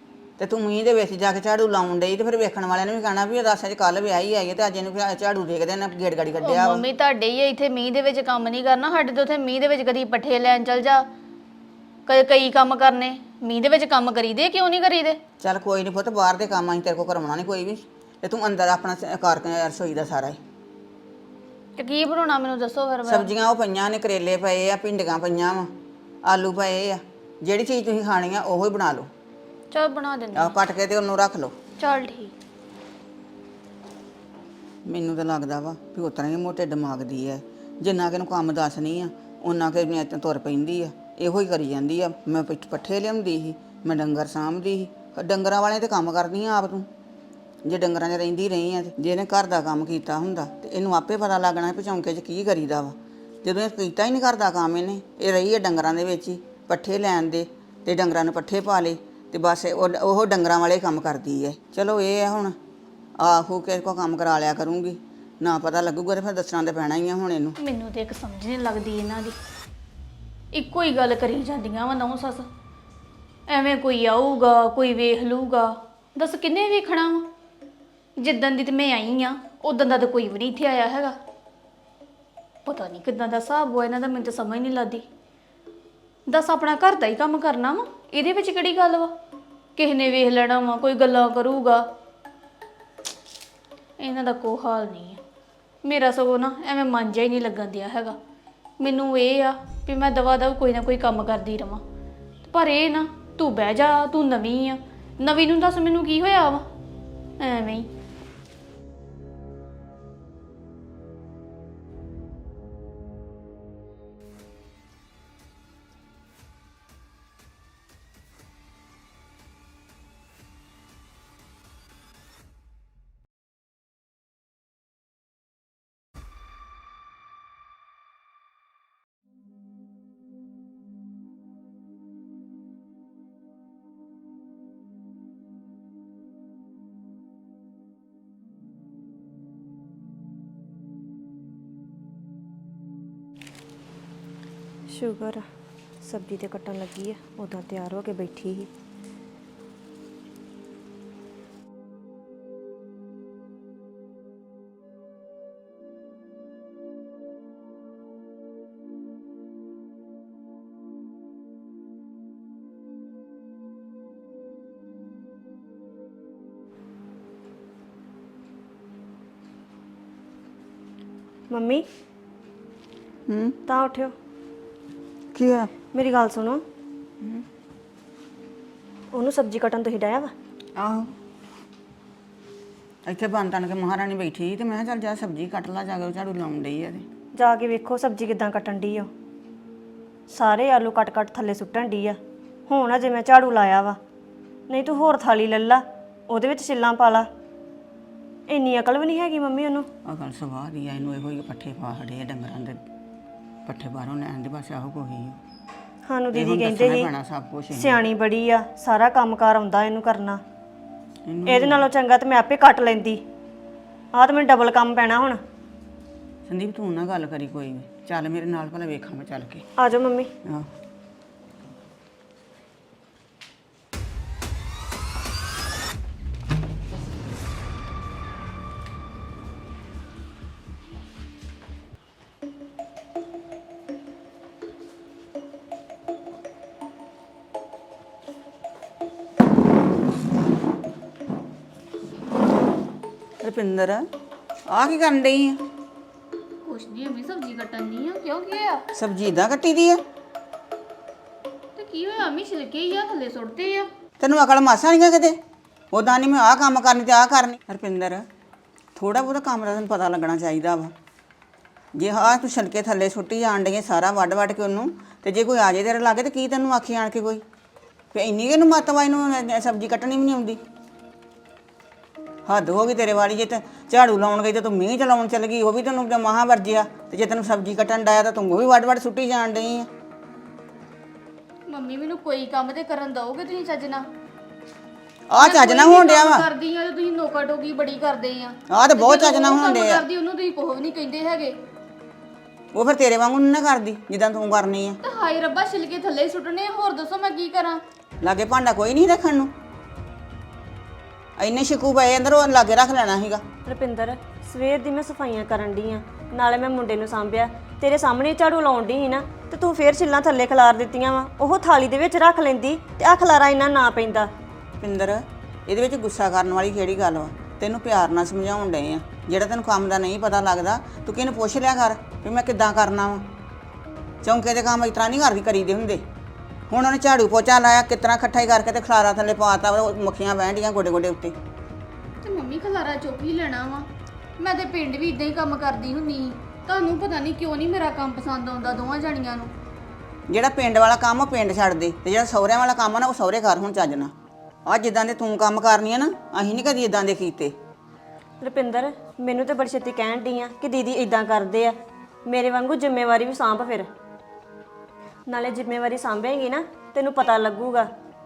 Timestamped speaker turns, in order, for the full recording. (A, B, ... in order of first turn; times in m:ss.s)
0:00.4-0:06.9 A
0:06.4-0:11.1 B
0:12.1-0:15.2 B
0:15.4-0:20.4 A
0:21.8-0:23.3 B
0:23.1-0:25.7 A
0:26.3-0:29.1 A
0:29.7-0:30.6 B
0:30.3-0:31.5 A
0:31.8-0:32.3 B
0:34.9-0:46.9 A
0:47.6-1:02.6 A
1:03.2-1:07.6 A
1:07.6-1:09.4 B
1:10.5-1:12.5 B
1:13.5-1:17.3 B
1:18.2-1:21.2 B
1:22.7-1:25.0 B
1:26.3-1:29.1 B
1:29.8-1:31.8 B
1:34.0-1:35.2 B
1:35.8-1:38.2 B
1:38.8-1:41.8 B
1:42.4-1:46.6 B
1:47.4-1:47.9 B
2:24.9-2:25.4 C
2:26.0-2:28.7 C
2:51.5-2:51.8 C
2:53.3-2:53.6 A
2:53.7-2:54.1 C
2:55.3-2:55.7 A
2:55.9-2:56.6 C
2:59.1-3:00.3 C
3:00.8-3:01.1 A
3:03.0-3:07.0 A
3:07.3-3:09.1 C
3:10.3-3:14.0 C
3:14.7-3:17.3 C
3:18.5-3:19.9 C
3:20.0-3:22.8 A
3:23.6-3:25.4 A
3:26.0-3:27.1 C
3:26.3-3:28.0 A
3:27.7-3:30.4 C
3:31.3-3:31.9 A
3:31.5-3:33.2 C
3:34.1-3:35.4 C
3:36.5-3:39.6 A
3:39.8-3:40.3 C
4:03.4-4:04.0 A
4:04.7-4:05.6 A
4:06.6-4:08.8 B
4:08.9-4:10.0 A
4:11.8-4:13.9 B
4:14.2-4:15.4 A
4:15.9-4:18.2 A
4:19.0-4:20.9 A
4:22.0-4:27.4 A
4:28.1-4:30.6 A
4:32.5-4:39.9 A
4:41.7-4:44.0 B
4:45.3-4:46.5 A
4:45.4-4:51.6 B
4:48.7-4:50.0 A
4:52.7-4:55.0 A
4:55.0-4:57.8 B
4:58.2-4:59.5 A
5:01.4-5:03.4 A
5:03.6-5:14.3 C
5:14.8-5:23.2 A
5:24.2-5:26.0 A
5:26.7-5:31.4 A
5:32.2-5:39.5 B
5:40.3-5:44.1 A
5:44.7-5:47.5 A
5:48.4-5:53.9 C
5:55.3-5:57.9 C